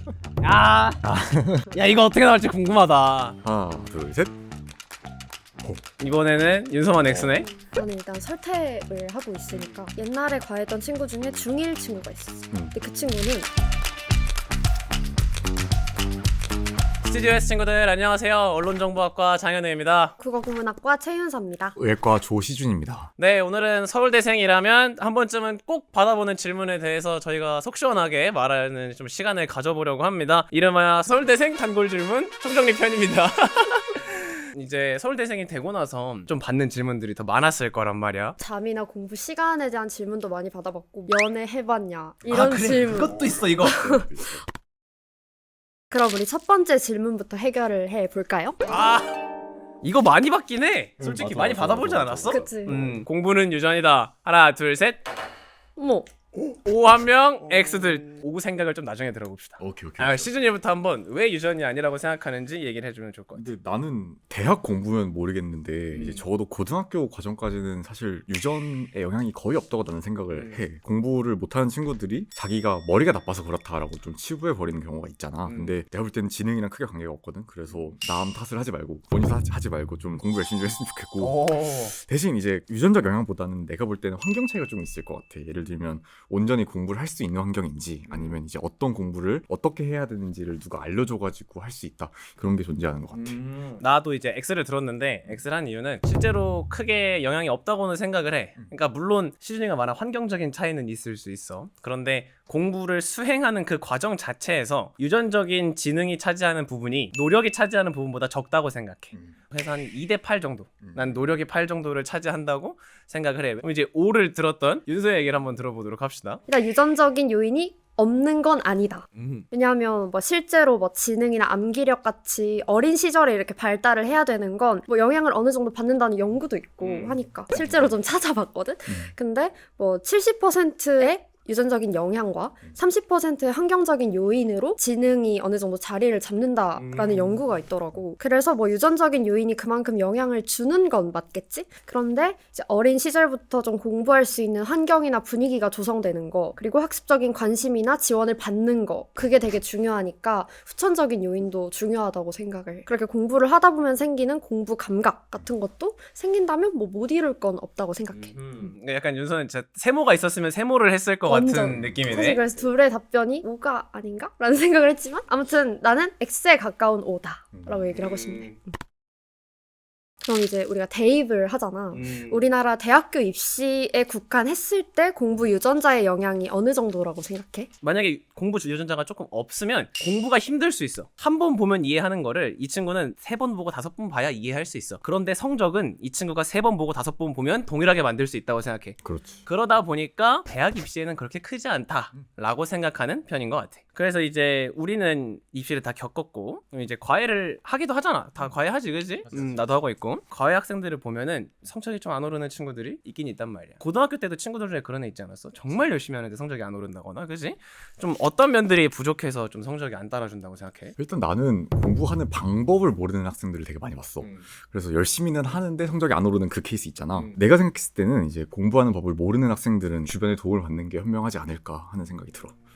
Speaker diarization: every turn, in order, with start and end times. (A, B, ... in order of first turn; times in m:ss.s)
0:00.4-0:03.4 A
0:01.1-0:01.6 B
0:03.4-0:04.3 B
0:06.0-0:07.5 A
0:07.1-0:07.4 B
0:07.6-0:13.5 C
0:09.5-0:09.9 A
0:17.0-0:20.1 A
0:20.2-0:21.8 C
0:21.8-0:23.1 B
0:23.2-0:38.4 A
0:38.4-0:44.1 C
0:42.3-0:43.8 A
0:42.3-0:44.4 B
0:45.9-0:48.6 C
0:48.7-0:49.2 A
0:49.8-0:55.0 A
0:51.0-0:53.0 B
0:52.3-0:52.8 C
0:55.8-0:56.1 C
0:56.6-1:03.4 A
0:57.6-0:57.9 B
0:59.6-1:00.3 B
1:03.3-1:33.4 B
1:05.9-1:06.2 A
1:10.3-1:10.6 A
1:15.4-1:15.7 A
1:17.7-1:17.9 A
1:21.2-1:22.0 A
1:28.1-1:28.3 A
1:33.2-1:56.4 A
1:50.8-1:51.3 B
1:56.5-2:38.4 C
1:59.1-1:59.4 A
2:06.8-2:07.2 A
2:16.8-2:17.5 A
2:38.2-2:42.4 A
2:41.2-2:48.6 C
2:41.7-2:42.0 B
2:47.5-2:47.8 B
2:47.9-2:48.5 A
2:50.2-2:57.7 C
2:51.9-2:52.4 A
2:57.8-3:31.0 A
3:09.0-3:09.4 B
3:31.0-3:42.5 B